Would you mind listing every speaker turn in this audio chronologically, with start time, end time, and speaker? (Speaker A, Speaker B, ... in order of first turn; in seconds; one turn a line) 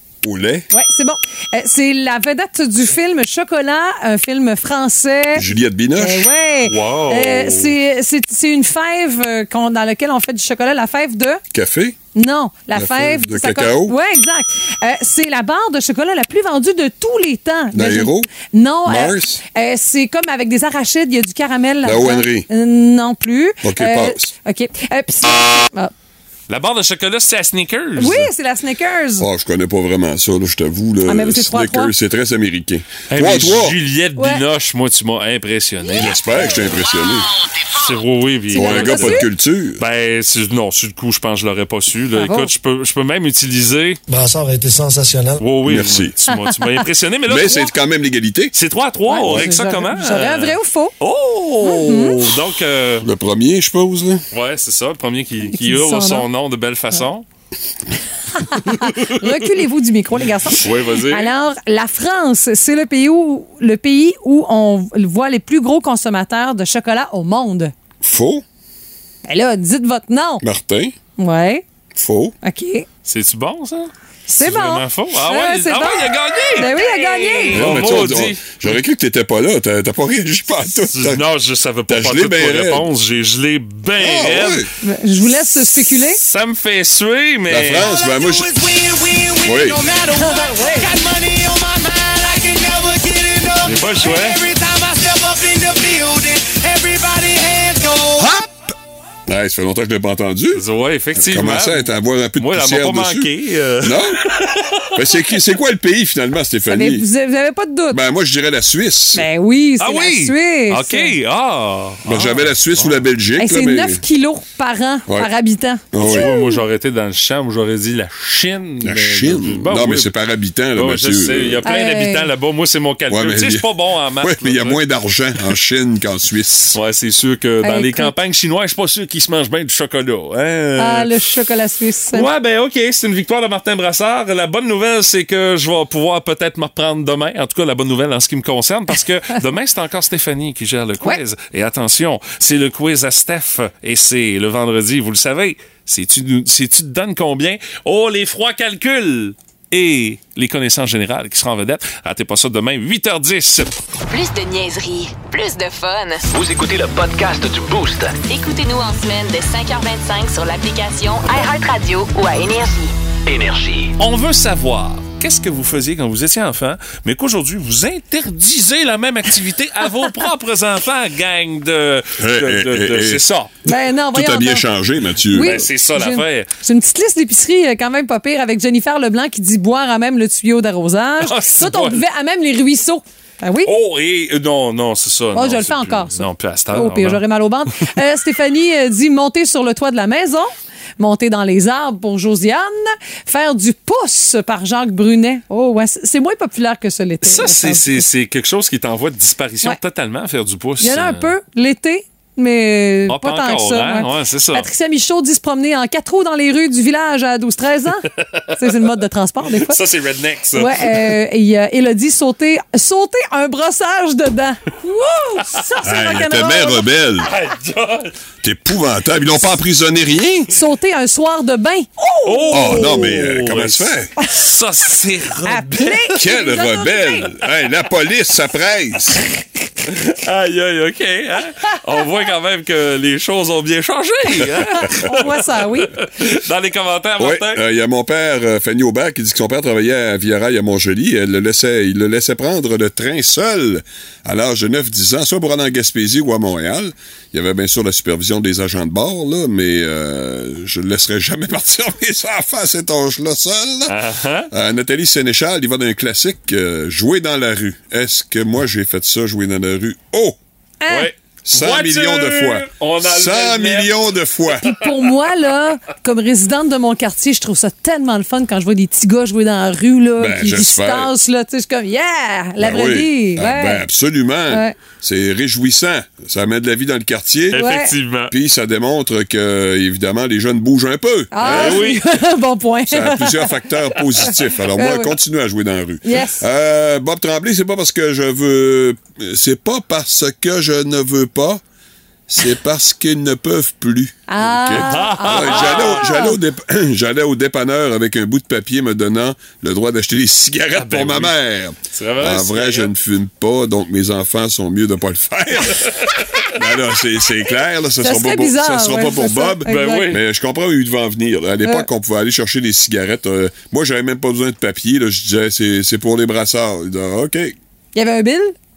Speaker A: 0.2-0.7
Speaker B: 0.7-5.4
Speaker A: 5.3-6.3
Speaker B: 6.0-11.4
Speaker C: 6.6-7.7
Speaker A: 11.5-12.0
Speaker B: 12.1-25.9
Speaker A: 12.7-13.9
Speaker A: 17.7-18.3
Speaker A: 18.9-19.4
Speaker A: 21.8-22.5
Speaker A: 23.6-24.3
Speaker C: 26.5-28.3
Speaker B: 28.0-29.3
Speaker A: 29.2-33.8
Speaker B: 31.1-31.9
Speaker C: 33.1-36.6
Speaker B: 34.2-34.4
Speaker A: 35.9-37.3
Speaker C: 37.7-44.0
Speaker B: 38.5-39.3
Speaker A: 38.5-39.8
Speaker B: 42.1-42.5
Speaker D: 44.1-45.4
Speaker C: 45.4-47.7
Speaker A: 45.6-46.1
Speaker A: 47.2-48.5
Speaker C: 48.5-53.1
Speaker B: 49.1-50.9
Speaker B: 51.6-52.2
Speaker A: 53.0-54.2
Speaker C: 54.3-57.2
Speaker B: 55.5-56.2
Speaker B: 58.3-67.7
Speaker C: 58.7-59.3
Speaker C: 60.6-61.3
Speaker A: 68.0-68.4
Speaker B: 69.2-70.4
Speaker A: 70.4-71.0
Speaker B: 71.2-71.6
Speaker A: 71.9-72.3
Speaker B: 72.4-72.8
Speaker C: 73.0-78.7
Speaker B: 74.3-78.0
Speaker A: 77.5-81.3
Speaker C: 80.9-84.6
Speaker A: 81.9-82.9
Speaker A: 84.0-84.7
Speaker B: 84.8-86.2
Speaker C: 86.1-87.9
Speaker A: 87.5-88.7
Speaker D: 88.0-98.1
Speaker A: 89.4-89.8
Speaker B: 90.2-90.9
Speaker C: 93.6-94.4
Speaker A: 98.2-98.5
Speaker A: 99.3-104.3
Speaker C: 100.5-105.1
Speaker A: 104.9-107.1
Speaker B: 106.7-108.0
Speaker A: 107.9-109.3
Speaker B: 109.1-111.1
Speaker C: 109.8-113.0
Speaker A: 112.0-114.0
Speaker B: 113.4-116.6
Speaker A: 115.1-115.3
Speaker A: 115.9-116.3
Speaker C: 116.0-120.1
Speaker A: 118.8-121.7
Speaker C: 120.7-124.8
Speaker B: 121.6-122.3
Speaker A: 123.1-126.8
Speaker C: 126.7-131.2
Speaker B: 127.6-128.1
Speaker B: 130.8-132.3
Speaker C: 132.1-153.8
Speaker E: 154.1-156.3
Speaker F: 156.3-158.1
Speaker E: 158.2-162.9
Speaker F: 163.3-163.9
Speaker C: 164.0-173.5
Speaker A: 172.2-173.2
Speaker B: 173.7-174.6
Speaker A: 174.1-175.7
Speaker B: 175.3-183.7
Speaker C: 175.3-176.5
Speaker C: 181.2-182.0
Speaker C: 183.6-187.2
Speaker B: 185.3-198.1
Speaker C: 197.2-201.3
Speaker B: 200.8-208.1
Speaker C: 203.1-204.7
Speaker C: 208.1-208.8
Speaker B: 208.6-209.8
Speaker C: 209.5-211.2
Speaker B: 210.5-216.8
Speaker A: 215.8-217.3
Speaker C: 217.2-218.1
Speaker A: 218.4-220.5
Speaker B: 220.5-223.1
Speaker C: 222.2-226.2
Speaker A: 222.5-224.1
Speaker B: 225.4-227.3
Speaker A: 226.1-229.2
Speaker C: 229.8-235.4
Speaker B: 235.0-235.9
Speaker C: 235.9-237.6
Speaker A: 237.2-254.0
Speaker C: 253.9-254.5
Speaker A: 254.5-260.4
Speaker B: 260.8-261.1
Speaker C: 260.9-265.1
Speaker A: 261.4-264.6
Speaker B: 264.6-273.8
Speaker A: 270.2-271.1
Speaker A: 272.6-277.6
Speaker B: 274.5-274.8
Speaker B: 277.5-277.9
Speaker C: 277.5-278.3
Speaker A: 278.3-281.9
Speaker B: 281.3-285.1
Speaker C: 281.4-282.0
Speaker A: 282.9-291.6
Speaker B: 286.0-286.4
Speaker A: 292.3-317.6
Speaker B: 294.3-296.4
Speaker C: 294.8-296.1
Speaker C: 300.7-301.4
Speaker C: 301.9-302.9
Speaker B: 308.0-310.1
Speaker C: 309.6-310.2
Speaker B: 317.9-318.5